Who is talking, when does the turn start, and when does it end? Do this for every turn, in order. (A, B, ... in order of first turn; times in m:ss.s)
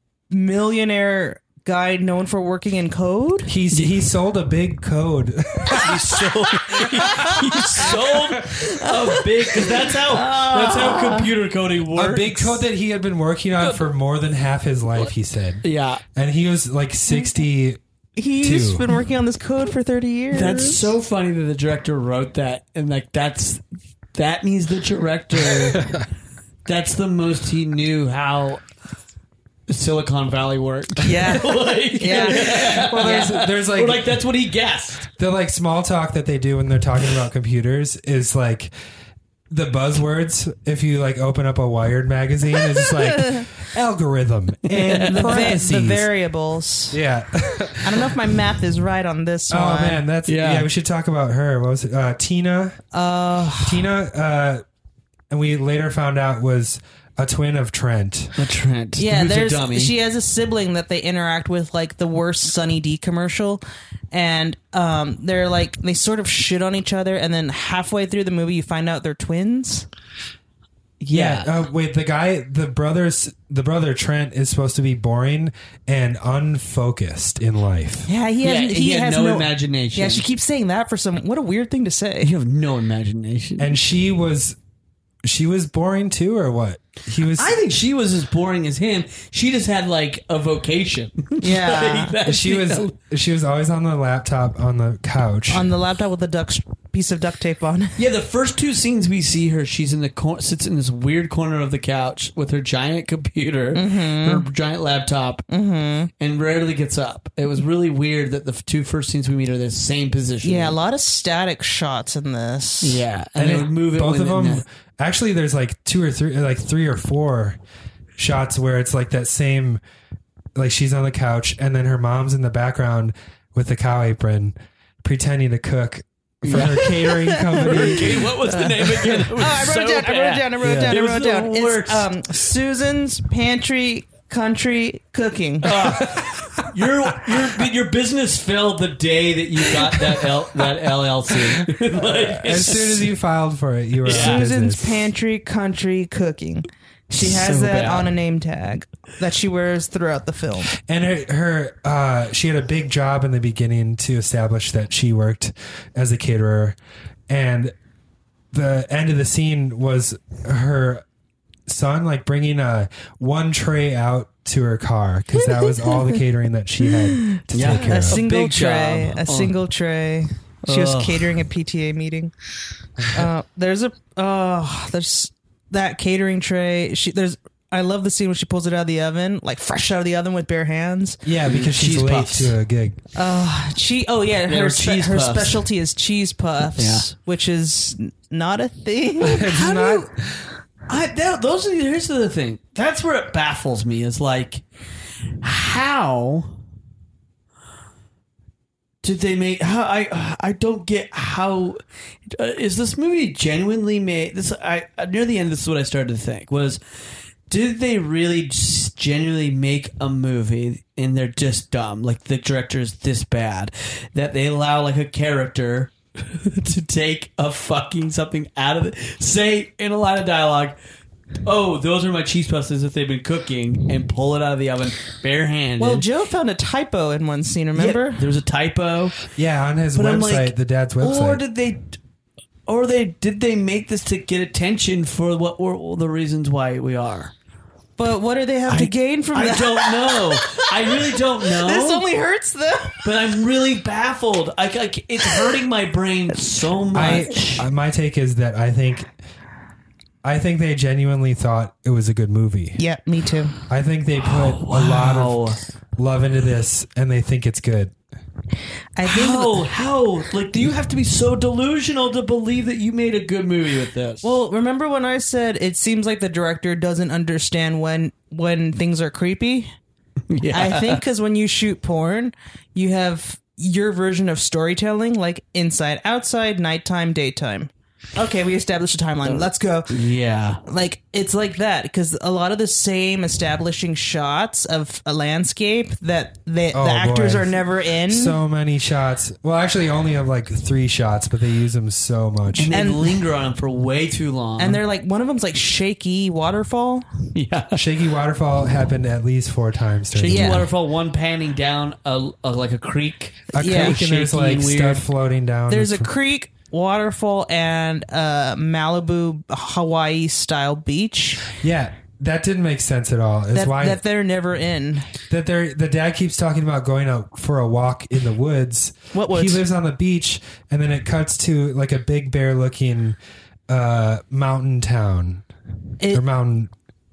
0:00.3-0:03.5 A
0:03.5-0:06.2 B
0:05.7-0:12.6 C
0:06.9-0:07.9 A
0:08.6-0:11.3 A
0:11.9-0:17.8 B
0:15.6-0:16.0 C
0:18.2-0:20.9 A
0:18.4-0:18.8 B
0:20.3-0:23.6 C
0:24.1-0:25.9 C
0:26.6-0:28.6 C
0:29.7-0:35.1 C
0:31.0-0:33.3 A
0:32.0-0:34.2 B
0:35.2-0:38.7 B
0:39.5-0:46.1 B
0:44.7-0:45.6 C
0:45.0-0:47.0 A
0:46.9-0:48.1 B
0:47.8-0:50.0 A
0:49.5-0:52.8 B
0:50.2-0:50.7 C
0:52.9-0:53.9 A
0:53.6-0:54.6 B
0:55.3-0:58.3 B
0:58.4-1:00.0 C
0:59.0-1:09.9 A
1:11.0-1:11.5 C
1:11.1-1:18.1 B
1:18.0-1:22.3 A
1:18.4-1:20.2 C
1:22.2-1:23.7 C
1:23.6-1:24.6 B
1:25.2-1:27.6 B
1:27.3-1:32.9 C
1:31.4-1:32.1 A
1:32.2-1:35.6 B
1:35.5-1:38.0 A
1:38.0-1:45.5 C
1:43.7-1:44.5 A
1:45.5-1:46.1 A
1:46.2-1:50.8 C
1:50.4-1:53.0 A
1:52.8-1:54.6 C
1:53.4-1:57.6 B
1:58.2-1:59.8 B
2:00.5-2:08.4 B
2:06.4-2:06.9 C
2:06.5-2:16.0 A
2:07.5-2:12.3 C
2:10.6-2:10.9 B
2:15.6-2:23.1 C
2:22.0-2:25.1 B
2:24.0-2:24.4 C
2:24.1-2:30.7 A
2:27.2-2:28.1 C
2:30.7-2:36.8 B
2:37.3-2:37.7 B
2:38.5-2:41.0 B
2:41.7-2:48.2 B
2:45.8-2:46.1 A
2:47.2-2:52.3 A
2:47.5-2:49.5 C
2:50.6-2:51.4 C
2:53.1-3:01.2 A
3:01.2-3:03.0 B
3:01.4-3:02.5 C
3:03.1-3:10.0 A
3:04.5-3:05.6 C
3:06.8-3:07.0 C
3:09.2-3:10.4 B
3:09.4-3:09.9 C
3:10.9-3:14.6 C
3:15.4-3:16.6 C
3:19.0-3:26.8 C
3:27.5-3:40.8 C
3:41.4-3:46.0 C
3:45.8-3:48.2 A
3:47.7-3:49.2 C
3:49.4-3:51.4 B
3:49.9-3:52.0 C
3:52.7-3:57.3 C
3:58.0-4:03.1 A
3:58.7-4:02.0 C
4:03.0-4:07.6 C
4:06.9-4:09.1 B
4:10.2-4:12.8 B
4:12.8-4:13.6 A
4:13.7-4:17.9 B
4:14.2-4:15.6 C
4:18.9-4:19.6 A
4:19.0-4:24.3 C
4:24.2-4:29.7 A
4:30.3-4:31.0 C
4:30.5-4:39.9 A
4:39.2-4:40.6 C
4:40.6-4:48.4 A
4:46.7-4:52.7 B
4:52.5-4:54.8 C
4:52.7-4:53.2 A
4:54.6-4:57.0 A
4:57.3-4:57.9 C
4:57.7-5:00.6 B
5:00.1-5:05.0 C
5:00.2-5:00.6 A
5:03.5-5:06.1 B
5:03.5-5:04.0 A
5:05.7-5:11.4 A
5:11.6-5:14.0 B
5:13.5-5:15.1 A
5:15.3-5:23.2 B
5:19.1-5:19.6 A
5:23.7-5:25.4 B
5:26.1-5:26.7 B